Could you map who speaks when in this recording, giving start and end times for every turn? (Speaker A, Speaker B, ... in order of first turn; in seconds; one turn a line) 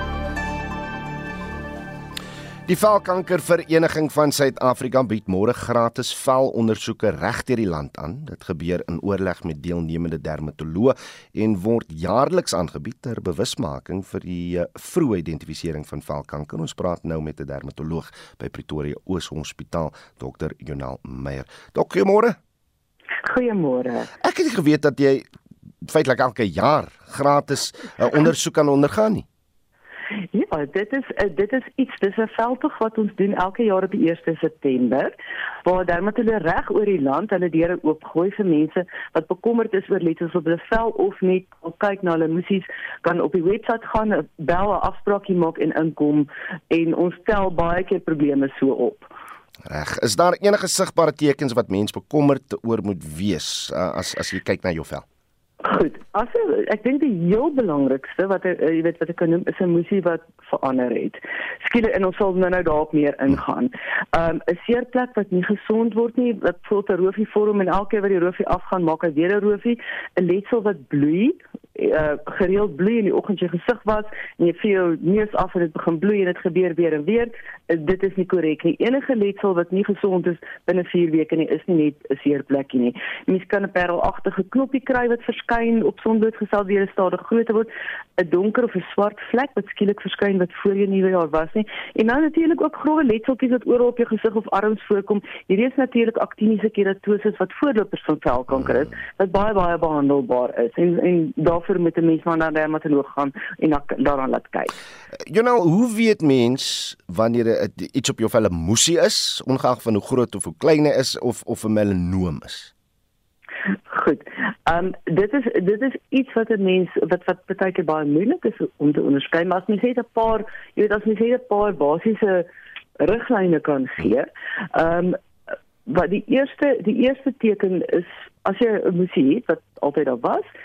Speaker A: 2.7-22.4
Speaker B: 23.2-24.1
Speaker A: 24.2-25.3
Speaker A: 25.8-29.3
Speaker B: 30.3-49.1
Speaker A: 49.7-55.0
Speaker B: 55.6-104.7
Speaker A: 105.3-112.7
Speaker B: 113.9-122.5
Speaker B: 123.0-125.2
Speaker B: 125.9-130.4